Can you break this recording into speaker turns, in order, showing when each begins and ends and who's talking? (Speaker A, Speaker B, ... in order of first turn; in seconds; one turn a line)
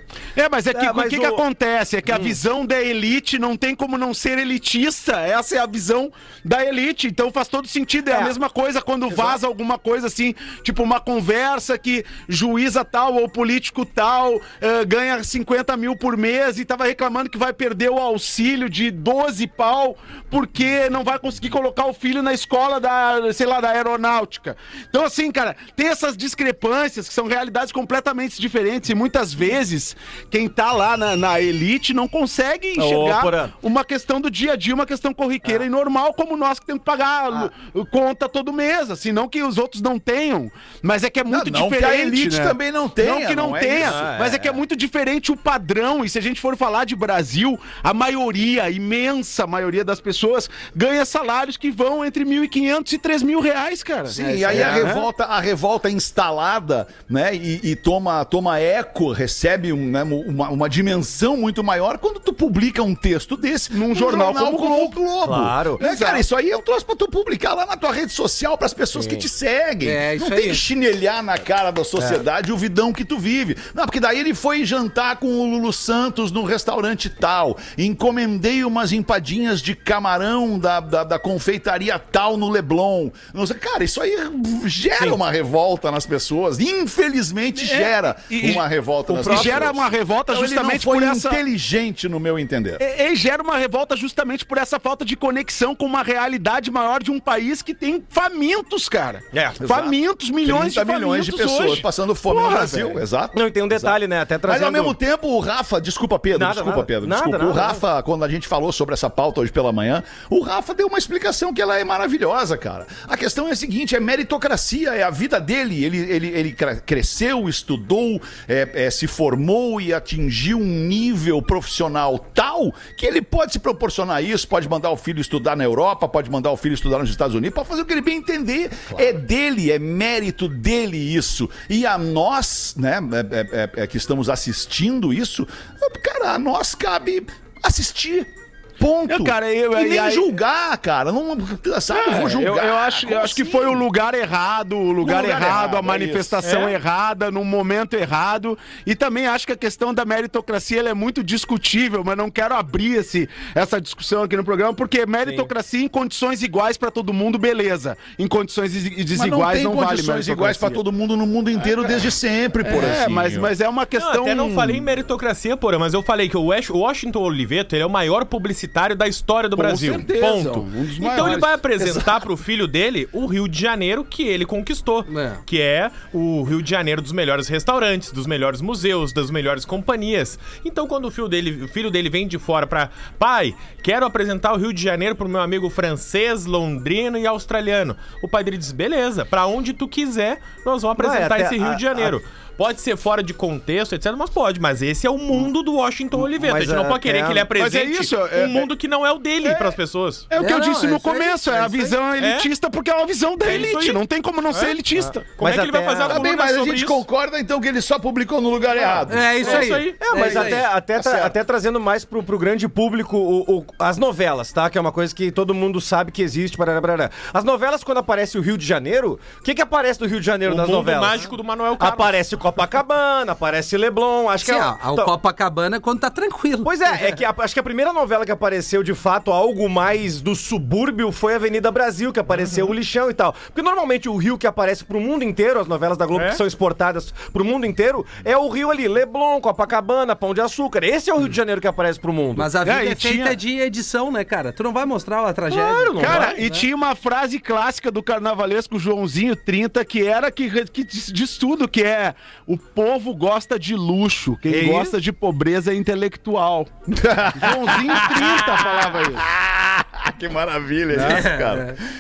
Speaker A: 0.4-55.1
Speaker B: 0.7-1.4
Speaker B: 2.1-2.4
Speaker B: 8.1-8.3
Speaker B: 9.1-9.4
Speaker B: 32.8-33.5
Speaker C: 41.3-44.0
Speaker B: 43.8-44.6
Speaker C: 54.1-92.8
Speaker D: 54.1-54.9
Speaker A: 63.7-65.0
Speaker B: 65.2-65.8
Speaker A: 65.8-66.2
Speaker D: 69.8-70.6
Speaker A: 87.6-88.6
Speaker B: 89.1-89.7
Speaker A: 89.2-91.4
Speaker A: 92.8-103.0
Speaker B: 99.3-99.9
Speaker C: 100.4-143.8
Speaker B: 103.3-105.0
Speaker B: 106.3-107.8
Speaker A: 139.1-140.3
Speaker A: 141.9-160.8
Speaker C: 145.0-146.5
Speaker E: 146.4-146.8
Speaker C: 159.1-163.5
Speaker A: 162.6-164.9
Speaker E: 163.9-200.3
Speaker A: 169.6-171.5
Speaker D: 175.1-175.4
Speaker B: 191.0-192.1
Speaker B: 196.2-197.5
Speaker A: 197.6-198.7
Speaker A: 199.4-199.8
Speaker A: 200.3-205.3
Speaker D: 200.4-201.9
Speaker E: 202.2-202.5
Speaker E: 203.4-207.0
Speaker B: 205.0-206.3
Speaker C: 206.1-209.5
Speaker E: 208.8-210.5
Speaker D: 209.1-210.4
Speaker B: 209.4-225.1
Speaker C: 210.2-211.3
Speaker E: 220.5-222.2
Speaker D: 224.4-227.2
Speaker B: 226.7-242.5
Speaker D: 242.4-246.7
Speaker A: 242.6-243.4
Speaker B: 245.5-246.4
Speaker A: 246.0-256.7
Speaker E: 246.0-246.4
Speaker B: 254.5-254.9
Speaker C: 256.9-261.8
Speaker A: 257.3-259.3
Speaker D: 261.0-261.8
Speaker A: 261.0-261.2